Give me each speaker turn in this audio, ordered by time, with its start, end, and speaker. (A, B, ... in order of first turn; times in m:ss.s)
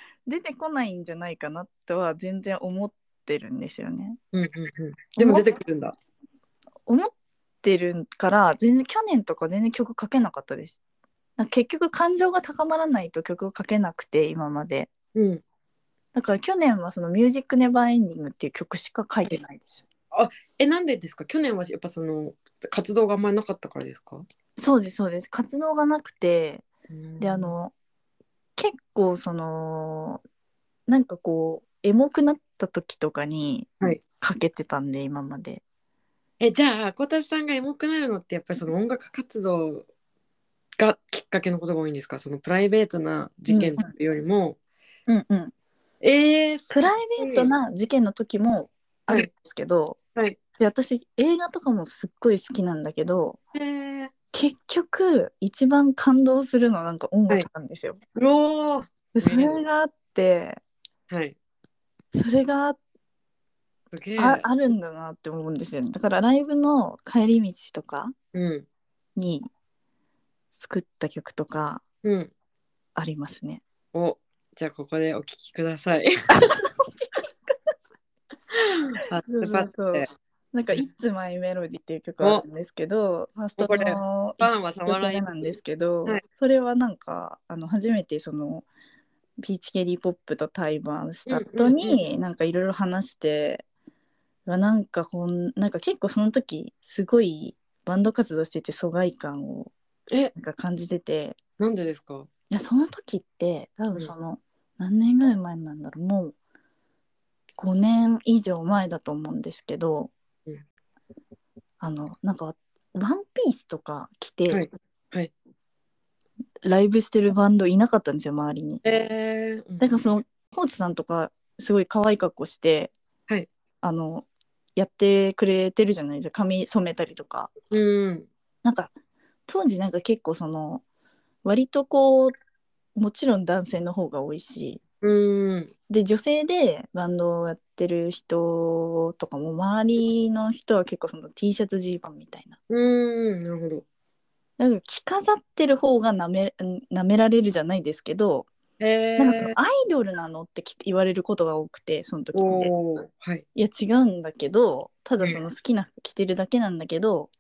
0:00.2-0:04.2 A
0:04.3-0:06.0 B
0:05.2-0:05.5 A
0:06.9-0:10.8 A
0:11.4-0:14.9 A
0:15.1-0:15.4 B
0:16.1-0:19.8 A
0:20.1-0:24.2 B
0:24.6-0:26.6 A
0:26.9-0:27.5 B
0:27.2-0:27.7 A
0:28.6-0:30.2 A
0:30.9-0:35.6 A
0:36.4-0:39.9 B
0:40.8-0:44.6 B
0:43.5-0:43.9 A
0:45.1-0:45.5 A
0:46.0-0:47.5 B
0:46.7-0:50.0 A
0:50.6-0:53.4 A
0:53.5-0:54.1 B
0:54.3-0:58.0 A
0:58.1-0:59.6 B
0:59.1-1:00.6 A
1:01.1-1:01.4 B
1:02.1-1:02.8 A
1:03.9-1:04.5 B
1:04.2-1:08.1 A
1:08.3-1:08.7 B
1:09.2-1:09.5 A
1:10.5-1:11.8 A
1:12.0-1:12.3 B
1:13.0-1:13.6 A
1:13.9-1:16.1 B
1:16.3-1:17.8 A
1:18.5-1:20.1 B
1:19.2-1:28.6 A
1:22.2-1:22.4 B
1:23.6-1:25.3 B
1:29.4-1:33.6 A
1:31.3-1:32.0 B
1:34.4-1:39.7 A
1:40.3-1:41.4 A
1:41.6-1:42.3 B
1:42.5-1:46.3 A
1:47.6-1:50.1 A
1:51.8-1:54.6 A
1:54.5-1:55.3 B
1:56.6-1:58.8 A
1:58.8-2:00.0 B
1:59.8-2:02.9 A
2:03.8-2:07.5 A
2:07.7-2:08.3 B
2:08.6-2:08.9 A
2:09.5-2:10.8 A
2:11.4-2:12.3 A
2:13.0-2:14.8 A
2:15.0-2:15.7 B
2:15.9-2:22.6 A
2:22.7-2:23.8 B
2:24.6-2:28.5 A
2:28.8-2:29.6 B
2:29.2-2:32.7 A
2:32.3-2:33.4 B
2:33.6-2:37.3 A